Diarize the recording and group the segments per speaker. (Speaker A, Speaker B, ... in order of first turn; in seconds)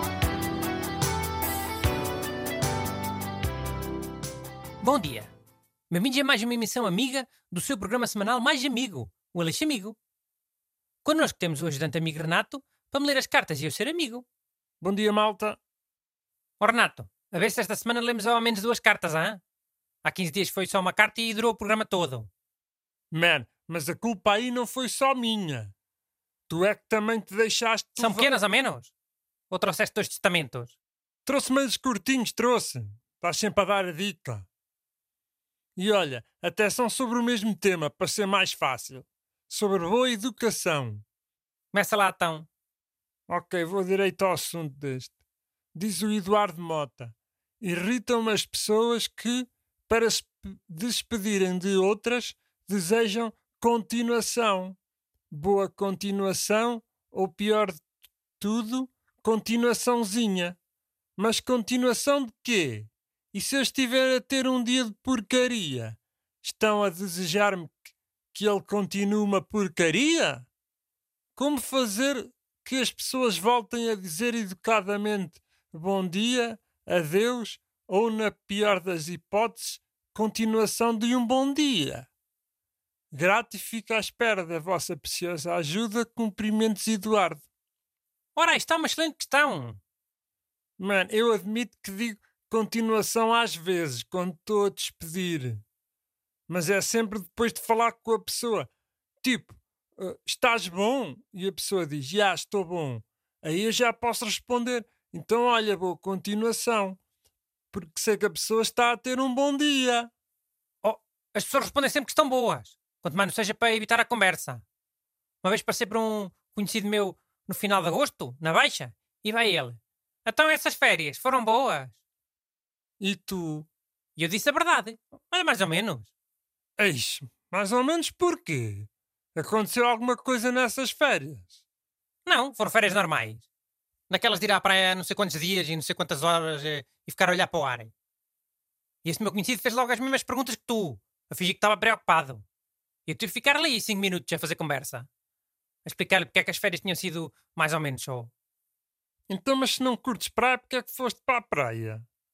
Speaker A: 4.8-5.3, 5.9-10.0, 11.0-14.2, 16.6-19.4, 20.0-22.3, 28.0-28.9, 29.5-30.8, 41.7-42.5, 88.3-89.8, 110.8-114.6, 115.4-122.0, 124.2-126.1, 132.2-133.4, 134.1-137.9, 139.0-142.4, 143.1-145.1, 145.8-148.3
Speaker B: 14.8-15.6, 23.1-25.7, 26.5-28.3, 31.2-34.5, 35.8-41.0, 43.3-45.1, 45.7-54.8, 55.3-57.8, 58.4-60.6, 61.2-67.8, 68.3-70.5, 71.3-82.1, 83.1-87.4, 90.8-95.6, 96.5-98.7, 99.2-107.0, 107.7-110.1, 123.0-123.7, 126.8-131.6, 149.3-152.0